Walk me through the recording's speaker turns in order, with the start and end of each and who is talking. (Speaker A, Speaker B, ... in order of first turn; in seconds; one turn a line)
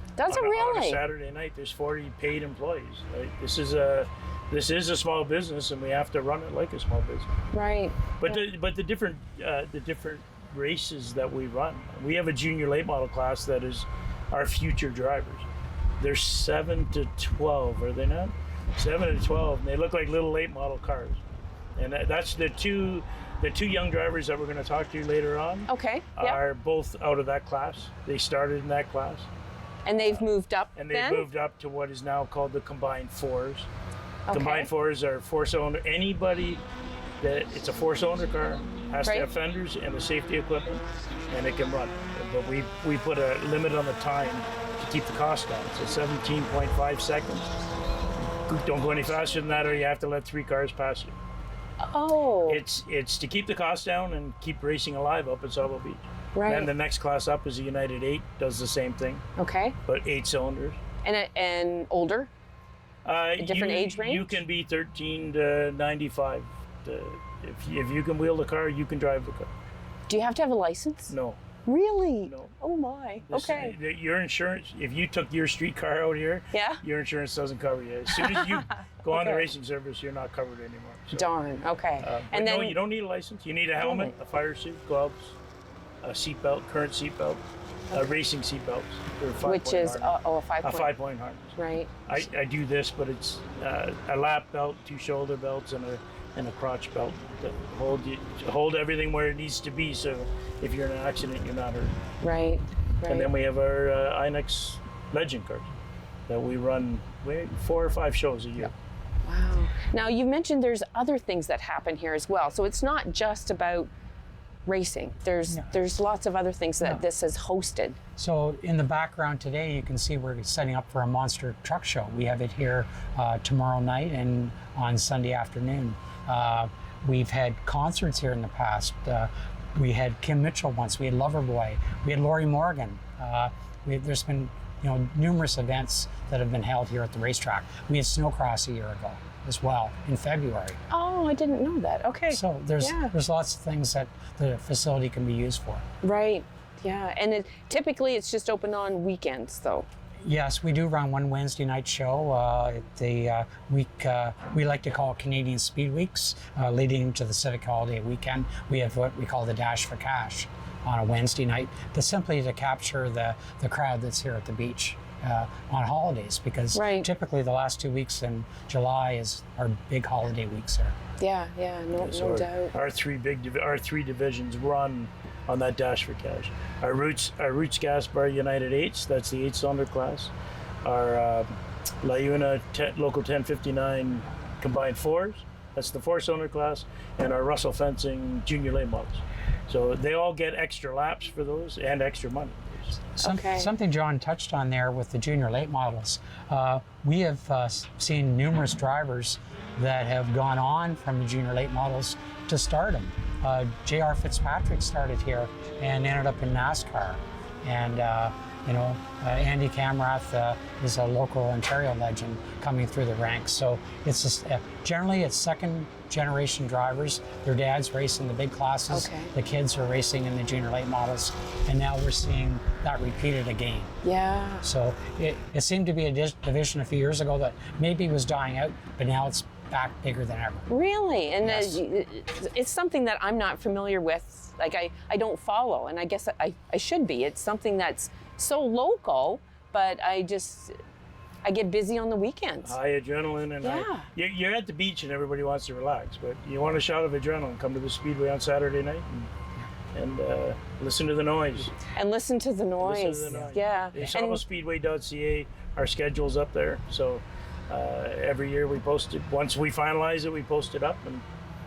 Speaker A: 0.2-1.0
Speaker B: 0.3-7.3
Speaker A: 7.5-8.4
Speaker B: 8.2-15.5
Speaker B: 16.0-21.2
Speaker B: 21.8-29.3
Speaker A: 25.7-26.4
Speaker A: 29.9-31.3
Speaker B: 30.8-33.7
Speaker A: 34.3-34.7
Speaker B: 34.3-36.6
Speaker B: 37.2-47.5
Speaker B: 48.5-51.1
Speaker A: 51.8-52.6
Speaker B: 52.5-59.2
Speaker A: 56.4-56.7
Speaker A: 59.4-59.8
Speaker B: 59.9-60.8
Speaker A: 61.0-62.3
Speaker B: 63.0-69.5
Speaker A: 63.4-64.4
Speaker A: 70.1-71.2
Speaker B: 71.1-71.4
Speaker A: 71.7-73.8
Speaker B: 72.2-72.5
Speaker B: 73.3-81.3
Speaker A: 76.5-76.8
Speaker A: 78.2-79.5
Speaker A: 81.1-82.8
Speaker B: 82.0-85.4
Speaker A: 83.8-84.1
Speaker B: 86.0-102.0
Speaker A: 89.4-91.0
Speaker A: 91.6-92.0
Speaker A: 102.2-103.3
Speaker B: 103.1-105.7
Speaker B: 106.3-108.7
Speaker A: 109.2-113.9
Speaker A: 114.7-118.0
Speaker C: 118.2-140.8
Speaker A: 140.9-143.2
Speaker C: 142.3-145.8
Speaker A: 146.0-149.9
Speaker C: 150.2-170.9
Speaker A: 166.7-167.1
Speaker A: 171.2-172.7
Speaker B: 171.9-193.0
Speaker C: 193.2-223.9
Speaker A: 193.2-193.7
Speaker A: 218.9-219.3
Speaker A: 224.0-224.7
Speaker C: 224.6-230.7
Speaker A: 230.7-240.8
Speaker C: 231.4-231.8
Speaker A: 241.4-242.8
Speaker B: 242.6-249.3
Speaker A: 243.6-244.1
Speaker B: 249.9-251.7
Speaker A: 251.9-254.4
Speaker B: 252.8-261.2